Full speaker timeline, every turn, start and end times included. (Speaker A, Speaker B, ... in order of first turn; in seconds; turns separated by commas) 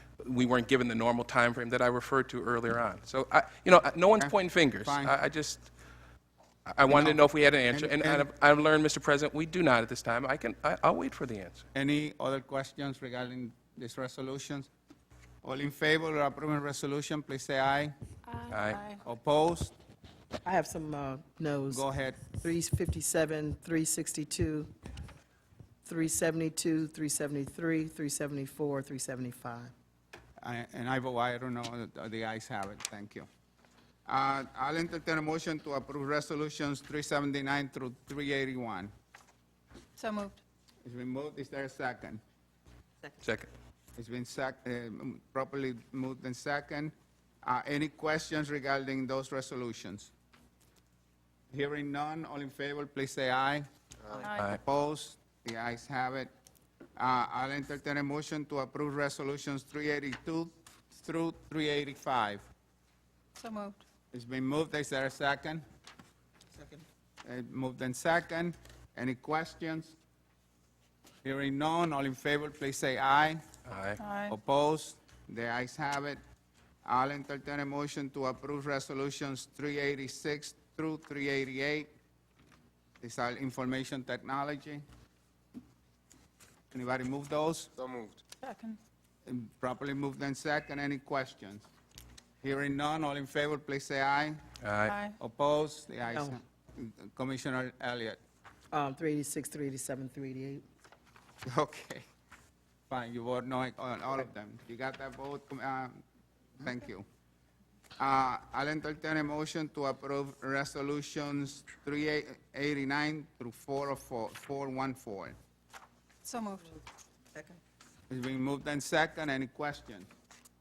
Speaker A: 0.2-5.7, Speaker B: 4.2-5.2, Speaker A: 6.7-11.6, Speaker B: 6.9-8.3, Speaker B: 11.7-14.7, Speaker B: 15.4-17.9, Speaker C: 18.3-19.0, Speaker A: 18.5-18.8, Speaker B: 19.0-19.8, Speaker D: 20.4-24.7, Speaker B: 21.7-22.3, Speaker D: 25.9-29.7, Speaker B: 30.4-33.3, Speaker B: 34.1-38.9, Speaker C: 40.0-40.4, Speaker B: 40.8-42.2, Speaker A: 43.2-43.5, Speaker B: 44.0-50.1, Speaker B: 51.5-53.7, Speaker C: 54.2-54.5, Speaker B: 54.5-56.3, Speaker B: 57.0-62.5, Speaker C: 63.4-63.8, Speaker B: 64.1-65.7, Speaker B: 67.2-70.0, Speaker B: 71.2-73.4, Speaker A: 73.7-74.0, Speaker C: 74.0-74.4, Speaker B: 74.3-76.2, Speaker B: 76.8-81.9, Speaker B: 83.0-84.8, Speaker B: 86.7-87.7, Speaker C: 88.4-88.8, Speaker B: 89.3-91.7, Speaker B: 92.4-94.4, Speaker A: 94.6-95.0, Speaker C: 94.8-95.2, Speaker B: 95.2-98.2, Speaker D: 96.1-96.4, Speaker D: 98.7-100.6, Speaker B: 101.5-102.0, Speaker B: 102.9-106.0, Speaker B: 106.6-107.1, Speaker B: 108.0-115.4, Speaker C: 116.2-116.7, Speaker B: 118.1-120.1